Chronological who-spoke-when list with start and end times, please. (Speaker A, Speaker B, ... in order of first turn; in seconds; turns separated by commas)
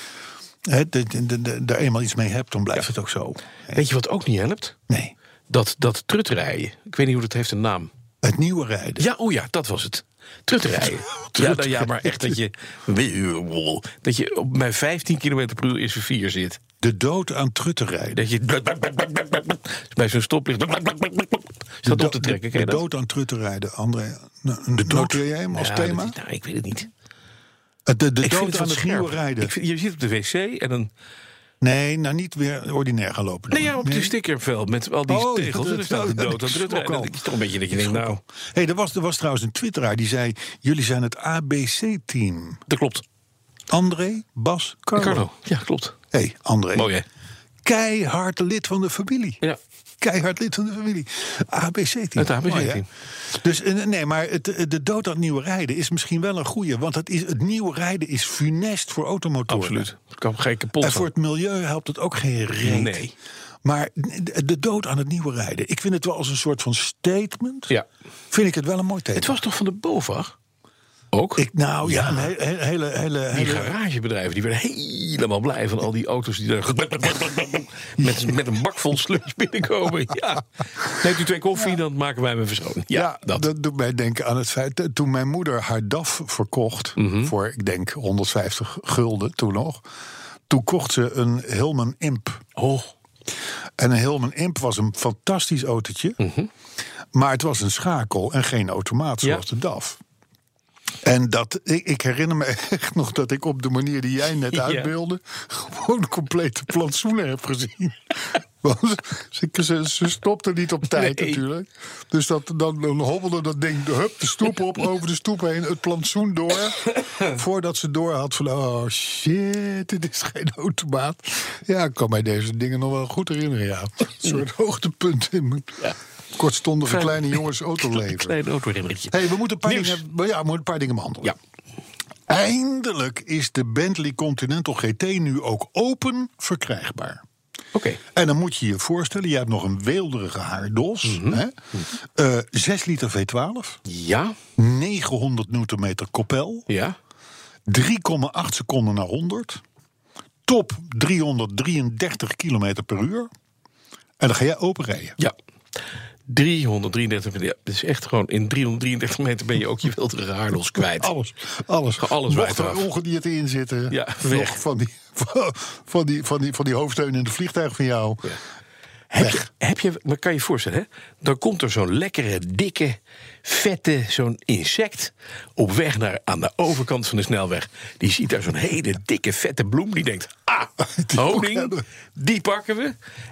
Speaker A: 0.7-3.8, Speaker B: 3.7-4.8, Speaker A: 4.9-5.1, Speaker B: 5.5-7.9, Speaker A: 8.2-9.0, Speaker B: 9.0-16.6, Speaker A: 11.3-12.4, Speaker A: 16.8-18.2, Speaker B: 18.1-22.8, Speaker A: 21.8-26.1, Speaker B: 24.8-26.9, Speaker A: 27.9-29.5, Speaker B: 28.2-30.9, Speaker A: 31.6-34.1, Speaker B: 33.5-38.2, Speaker A: 35.1-42.6, Speaker B: 42.7-43.0, Speaker A: 43.7-45.2, Speaker B: 45.0-46.0, Speaker A: 46.1-46.9, Speaker B: 46.7-47.0, Speaker A: 47.6-49.4, Speaker A: 50.0-59.9, Speaker B: 52.2-52.9, Speaker B: 59.5-61.1, Speaker A: 60.8-63.0, Speaker B: 62.6-63.1, Speaker A: 63.6-67.7, Speaker A: 68.3-69.4, Speaker B: 69.1-70.3, Speaker B: 71.1-72.2, Speaker A: 71.4-73.7, Speaker B: 73.3-83.4, Speaker A: 78.0-78.3, Speaker A: 82.9-89.8, Speaker B: 87.0-87.3, Speaker A: 90.5-92.4, Speaker B: 92.6-92.9, Speaker A: 93.8-96.2, Speaker B: 96.2-96.5, Speaker A: 97.1-100.0, Speaker A: 101.0-128.4, Speaker B: 104.5-104.9, Speaker B: 110.9-111.4, Speaker B: 126.9-130.0, Speaker A: 129.1-131.3, Speaker A: 132.3-137.2, Speaker B: 137.7-138.0, Speaker A: 138.1-143.8, Speaker B: 141.0-141.8, Speaker B: 143.8-144.4, Speaker A: 144.6-146.7, Speaker B: 146.7-146.9, Speaker A: 147.7-149.6, Speaker A: 150.4-153.3, Speaker A: 154.2-155.2, Speaker B: 156.3-161.1, Speaker A: 160.8-168.4, Speaker B: 162.0-162.9, Speaker B: 163.9-164.6, Speaker B: 169.1-182.9, Speaker A: 169.2-169.4, Speaker A: 180.8-181.8